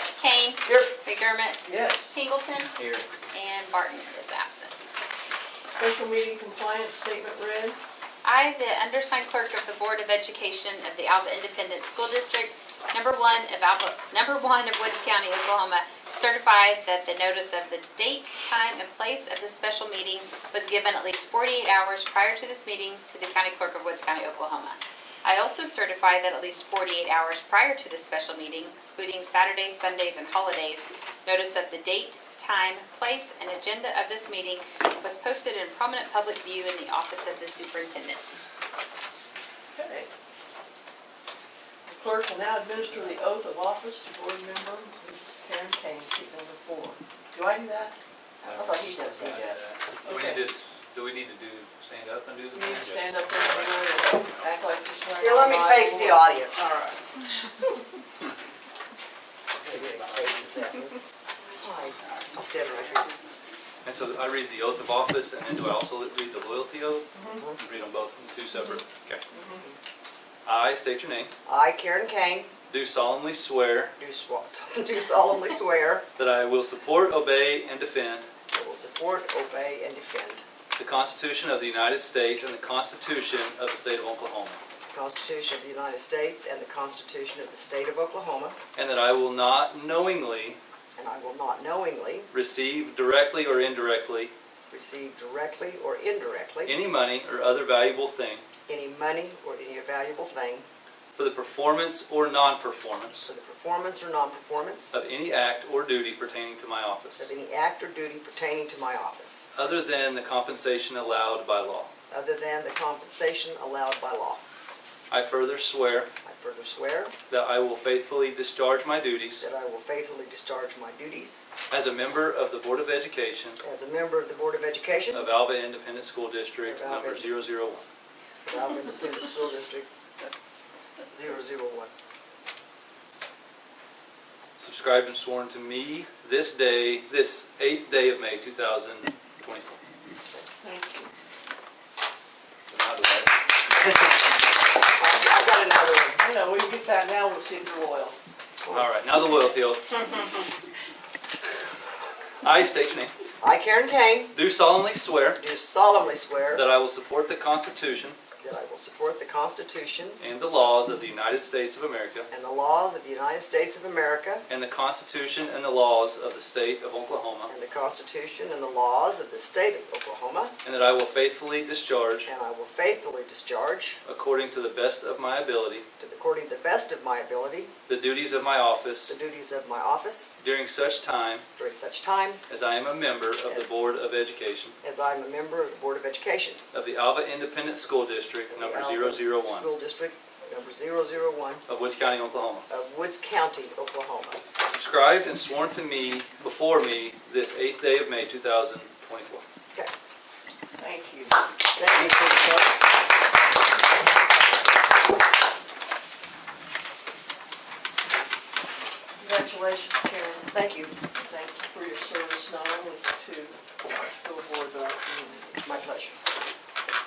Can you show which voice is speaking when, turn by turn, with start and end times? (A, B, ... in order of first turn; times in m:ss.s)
0:00.2-0:01.6 A
0:00.7-0:00.9 B
0:01.6-0:02.2 C
0:02.1-0:02.7 A
0:02.8-0:03.0 D
0:03.3-0:04.7 A
0:05.6-0:07.8 C
0:08.2-0:38.2 A
0:39.7-0:40.1 C
0:41.9-0:50.4 C
0:48.5-0:53.7 D
0:52.5-0:56.3 C
0:55.2-0:56.6 B
0:56.6-0:57.0 D
0:59.6-1:01.0 B
1:01.6-1:03.1 B
1:03.8-1:09.2 D
1:07.2-1:07.4 C
1:09.3-1:09.6 C
1:10.4-1:11.3 D
1:11.4-1:12.5 B
1:12.7-1:14.0 D
1:14.0-1:16.0 B
1:16.2-1:18.3 D
1:18.5-1:20.4 B
1:20.8-1:24.6 D
1:24.9-1:28.6 B
1:28.8-1:30.6 D
1:31.0-1:32.3 B
1:32.3-1:34.3 D
1:34.7-1:36.8 B
1:36.6-1:38.4 D
1:38.7-1:40.7 B
1:41.2-1:43.3 D
1:43.3-1:44.9 B
1:44.9-1:47.3 D
1:47.2-1:49.5 B
1:49.5-1:51.9 D
1:52.1-1:54.4 B
1:55.1-1:56.1 D
1:56.2-1:57.1 B
1:57.3-1:59.4 D
1:59.4-2:01.4 B
2:01.7-2:03.6 D
2:03.6-2:05.3 B
2:05.1-2:07.9 D
2:06.6-2:07.4 B
2:08.4-2:09.9 B
2:11.1-2:11.9 B
2:14.6-2:19.8 D
2:20.6-2:21.1 C
2:22.7-2:24.2 D
2:24.9-2:26.2 B
2:26.2-2:28.2 C
2:28.7-2:29.8 D
2:32.4-2:33.1 D
2:33.4-2:34.3 B
2:34.3-2:35.4 D
2:35.4-2:36.7 B
2:36.5-2:38.2 D
2:38.4-2:40.2 B
2:40.2-2:42.3 D
2:42.3-2:44.4 B
2:44.5-2:47.5 D
2:47.5-2:50.5 B
2:50.6-2:52.3 D
2:52.2-2:54.0 B
2:54.0-2:55.8 D
2:56.0-2:57.7 B
2:57.9-2:59.2 D
2:59.1-3:00.3 B
3:00.4-3:01.4 D
3:01.6-3:02.4 B
3:02.5-3:04.7 D
3:04.8-3:06.6 B
3:06.7-3:09.7 D
3:08.5-3:11.6 B
3:11.7-3:12.7 D
3:12.7-3:14.4 B
3:14.7-3:19.4 D
3:20.8-3:21.4 C
3:21.8-3:22.8 B
3:29.2-3:30.5 C
3:30.5-3:31.0 B
3:31.2-3:35.6 C
3:35.6-3:36.1 B